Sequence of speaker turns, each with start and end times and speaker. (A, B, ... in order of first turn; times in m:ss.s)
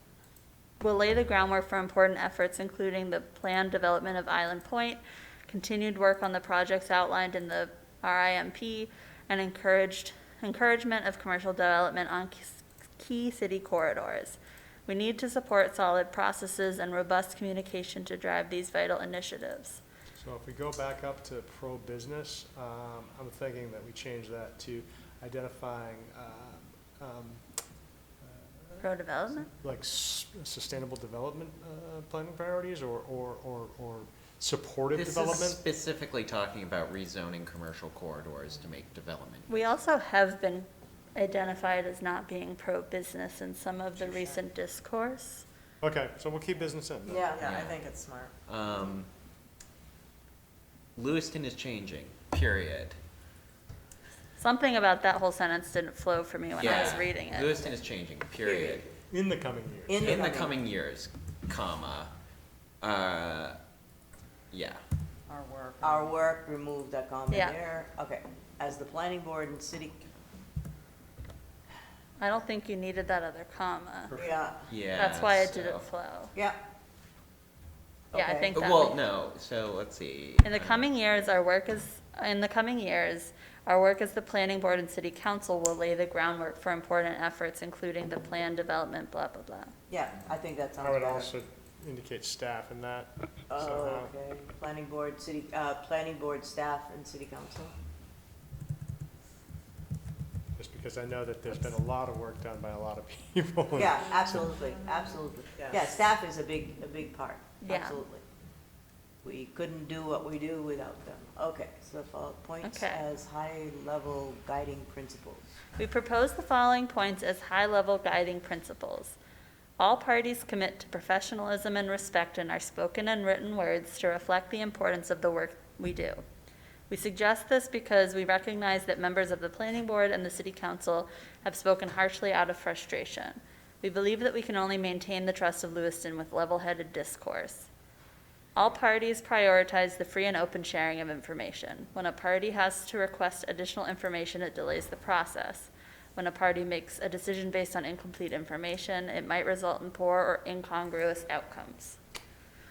0:00.8-0:19.8 A
0:20.2-0:27.4 B
0:28.2-0:35.6 B
0:28.8-0:29.4 A
0:34.9-0:39.8 C
0:39.5-0:45.4 A
0:44.0-0:44.4 D
0:45.8-0:47.3 B
0:47.0-0:47.4 E
0:47.3-0:48.3 D
0:47.4-0:47.8 C
0:48.5-0:49.1 C
0:51.0-0:53.0 C
0:54.4-0:57.7 A
0:56.6-0:58.9 C
0:58.4-0:58.8 E
0:59.1-1:00.3 B
0:59.9-1:00.6 E
1:00.0-1:02.1 C
1:02.8-1:03.6 C
1:04.5-1:04.8 C
1:05.3-1:06.3 D
1:05.8-1:10.0 E
1:07.3-1:07.6 A
1:12.2-1:14.2 A
1:14.1-1:14.4 B
1:14.2-1:14.7 E
1:14.7-1:15.9 C
1:14.9-1:16.3 A
1:18.1-1:18.6 E
1:18.1-1:18.9 A
1:18.5-1:20.9 C
1:20.4-1:29.7 A
1:29.9-1:31.3 E
1:30.8-1:34.1 B
1:33.5-1:37.7 E
1:40.6-1:44.5 B
1:43.8-1:48.2 E
1:45.5-1:45.9 D
1:47.7-1:48.0 A
1:49.2-1:55.4 E
1:52.6-1:53.0 A
1:55.8-1:59.2 A
1:59.8-2:06.2 A
2:06.9-2:17.7 A
2:18.6-2:32.0 A